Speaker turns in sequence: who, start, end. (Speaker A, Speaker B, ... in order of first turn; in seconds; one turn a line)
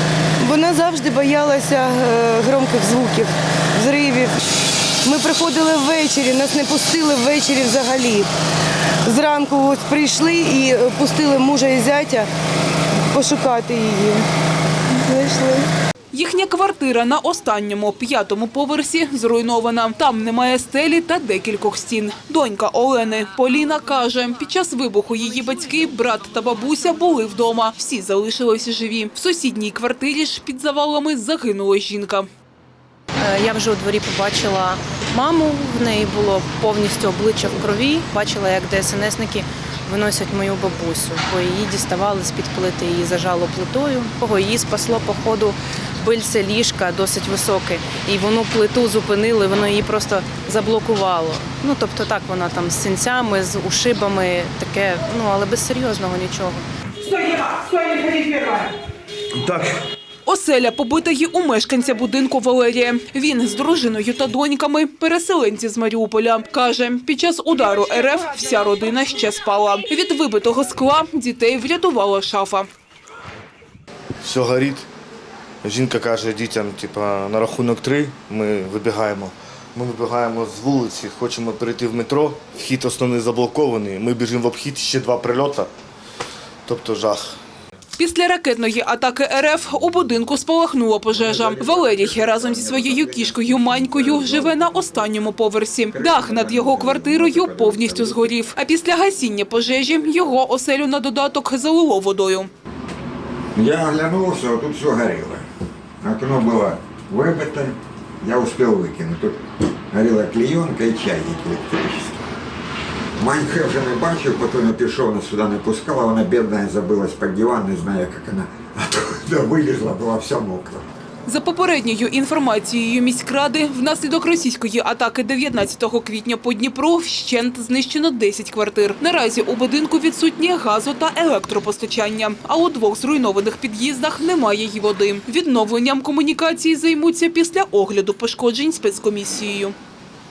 Speaker A: 0.4-4.4
Speaker A: 5.0-8.3
Speaker A: 9.1-12.3
Speaker A: 13.1-14.2
Speaker A: 14.9-15.7
Speaker B: 16.1-32.3
Speaker C: 33.2-56.6
Speaker B: 57.2-58.6
Speaker D: 59.4-59.7
Speaker B: 60.2-72.7
Speaker D: 74.2-74.9
Speaker D: 75.6-85.7
Speaker D: 86.7-87.4
Speaker B: 88.0-102.5
Speaker E: 91.1-94.9
Speaker E: 95.9-98.3
Speaker E: 103.6-105.5
Speaker E: 106.0-109.4
Speaker E: 109.9-112.2
Speaker E: 113.2-120.8
Speaker B: 121.3-139.8